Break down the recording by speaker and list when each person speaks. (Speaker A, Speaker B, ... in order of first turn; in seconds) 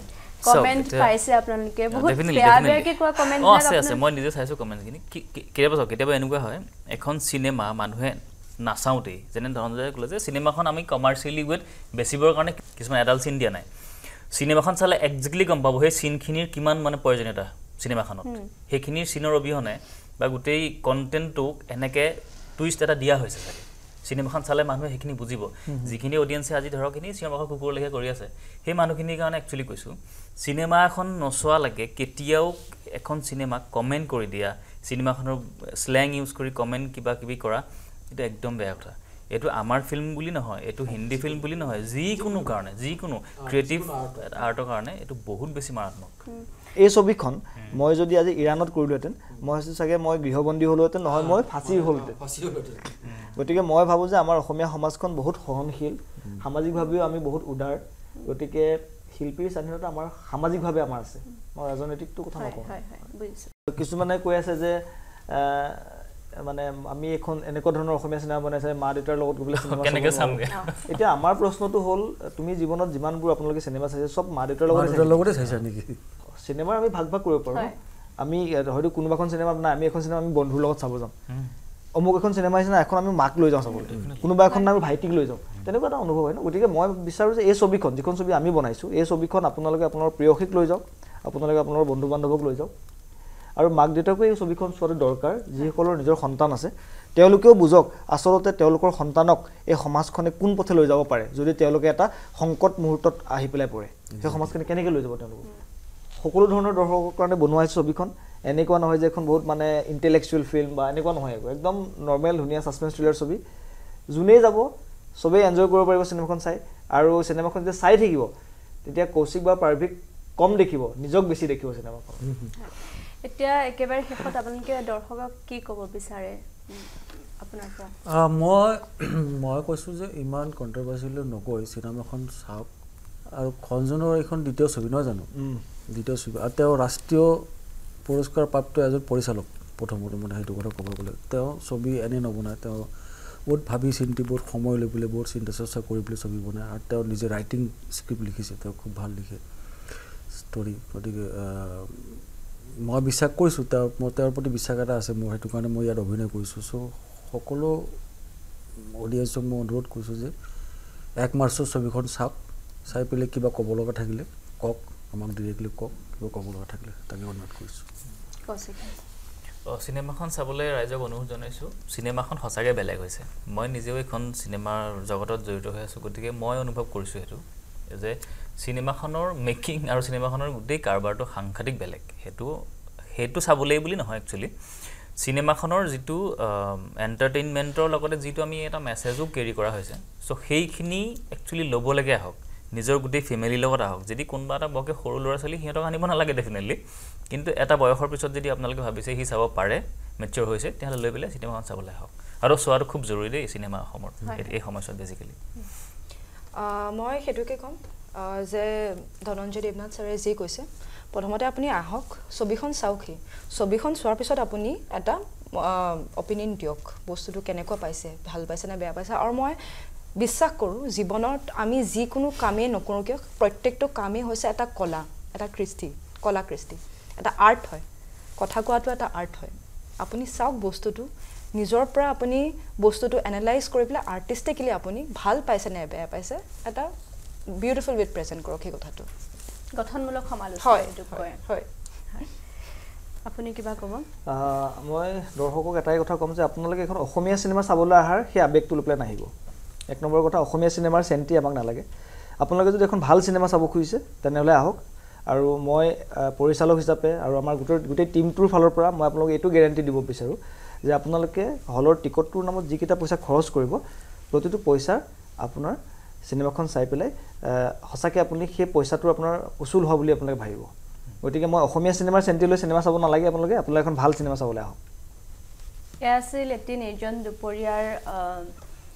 Speaker A: 0.4-4.0, 18.2-18.5, 62.3-63.5, 70.5-70.8, 122.6-127.9, 168.4-169.0, 239.7-241.4, 243.2-244.1, 276.0-278.5
Speaker B: 0.4-1.1, 1.9-46.2, 53.0-53.4, 69.5-70.9, 83.9-84.2, 169.7-196.8, 197.3-205.4
Speaker C: 25.7-25.9, 46.8-52.2, 53.3-62.8, 63.7-64.8, 65.3-75.3, 76.4-81.1, 82.0-92.7, 93.6-105.5, 106.2-113.4, 114.1-118.3, 118.8-122.3, 135.3-135.6, 244.3-249.3, 249.9-251.8, 252.4-263.8, 264.3-270.7, 271.2-274.8
Speaker D: 40.9-42.6, 43.4-44.4, 51.1-53.1, 74.7-76.0, 104.1-104.5, 122.2-122.5, 128.1-132.7, 133.3-135.3, 135.9-137.5, 138.0-152.2, 152.8-158.0, 158.8-160.3, 161.2-162.3, 162.9-167.8
Speaker E: 206.5-227.8, 228.4-236.9, 237.5-239.1, 240.6-241.7